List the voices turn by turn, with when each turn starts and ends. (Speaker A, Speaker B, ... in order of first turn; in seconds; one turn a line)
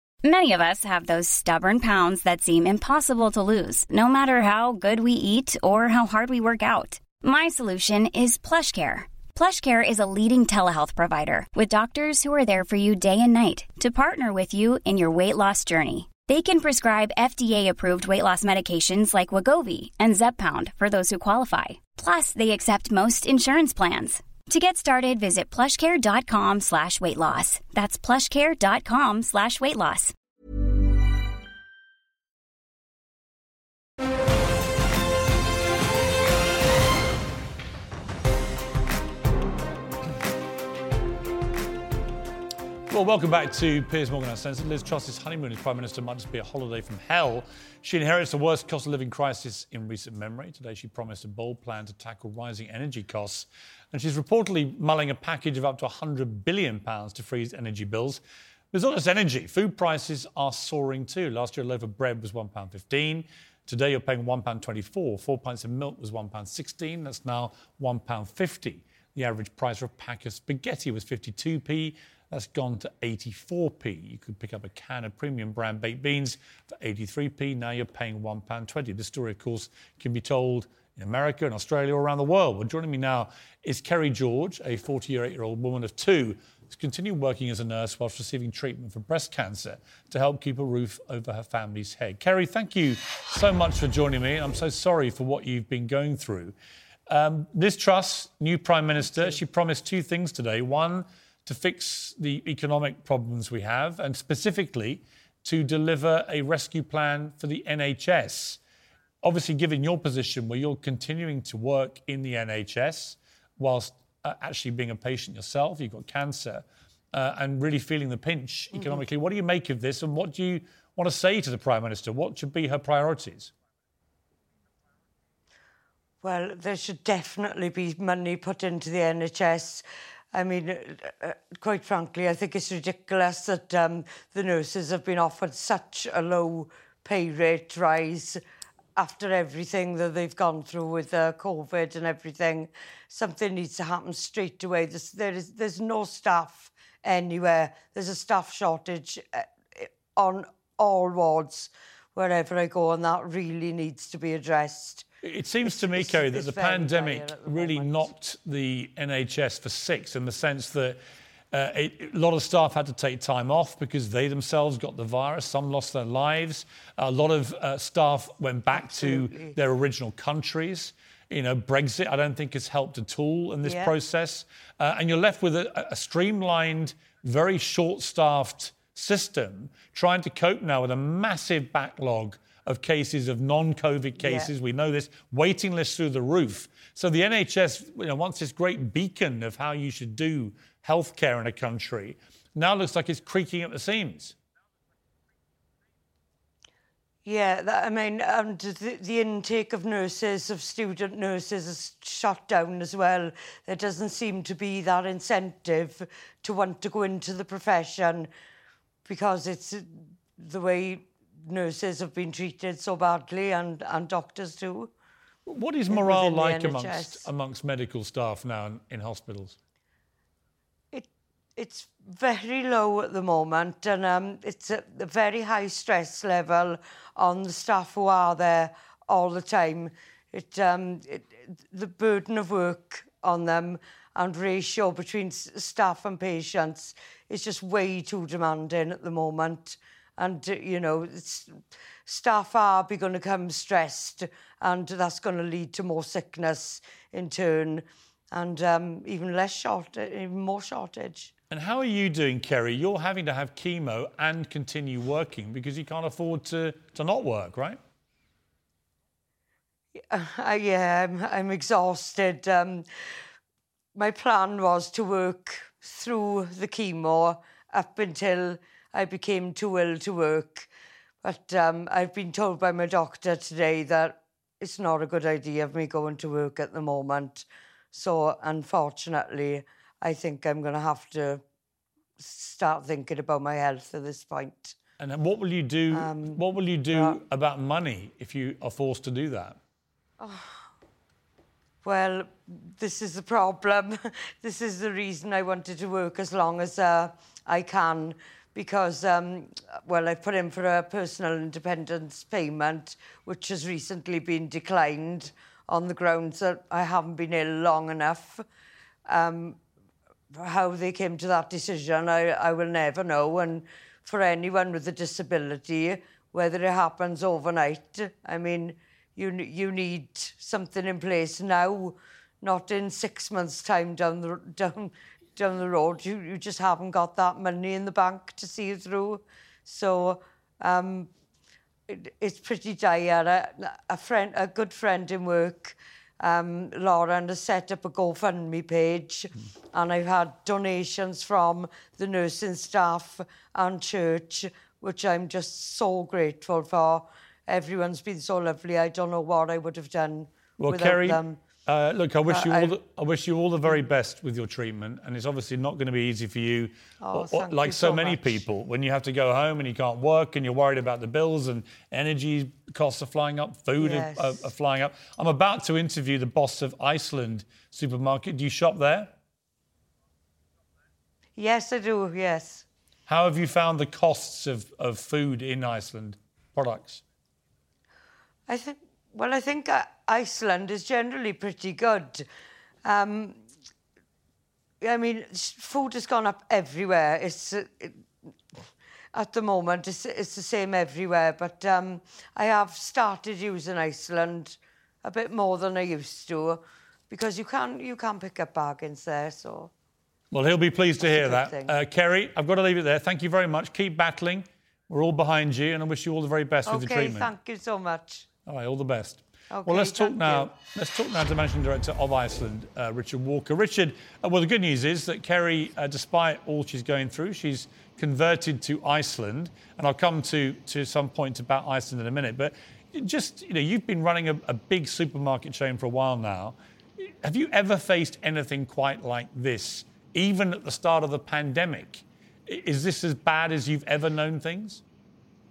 Speaker A: 0.2-30.1
Speaker B: 42.9-96.5
Speaker B: 97.1-108.6
Speaker C: 99.0-99.4
Speaker B: 109.2-123.5
Speaker C: 126.2-138.4
Speaker C: 138.9-155.1
Speaker B: 155.2-161.0
Speaker C: 155.6-158.1
Speaker B: 161.5-194.3
Speaker C: 168.7-169.6
Speaker C: 173.6-173.9
Speaker C: 184.2-184.5
Speaker C: 197.2-208.3
Speaker C: 209.1-214.9
Speaker B: 215.4-219.6
Speaker C: 215.9-217.2
Speaker C: 220.9-251.3
Speaker B: 251.5-257.8
Speaker C: 260.0-262.8
Speaker C: 263.9-270.7
Speaker C: 271.2-281.4
Speaker C: 282.2-284.8
Speaker B: 285.0-289.6
Speaker C: 285.9-287.2
Speaker C: 290.2-290.6
Speaker C: 291.8-308.4
Speaker C: 309.1-309.6
Speaker C: 310.3-331.1
Speaker C: 331.9-351.4
Speaker B: 350.6-369.1
Speaker C: 352.3-352.7
Speaker C: 357.0-358.4
Speaker C: 363.8-364.4
Speaker C: 371.4-372.6
Speaker B: 373.1-377.0
Speaker C: 378.5-382.2
Speaker C: 382.8-383.4
Speaker C: 384.8-388.0
Speaker C: 389.1-399.7
Speaker B: 400.3-407.3
Speaker C: 401.0-401.7
Speaker C: 406.6-408.3
Speaker B: 408.4-434.8
Speaker C: 409.5-410.5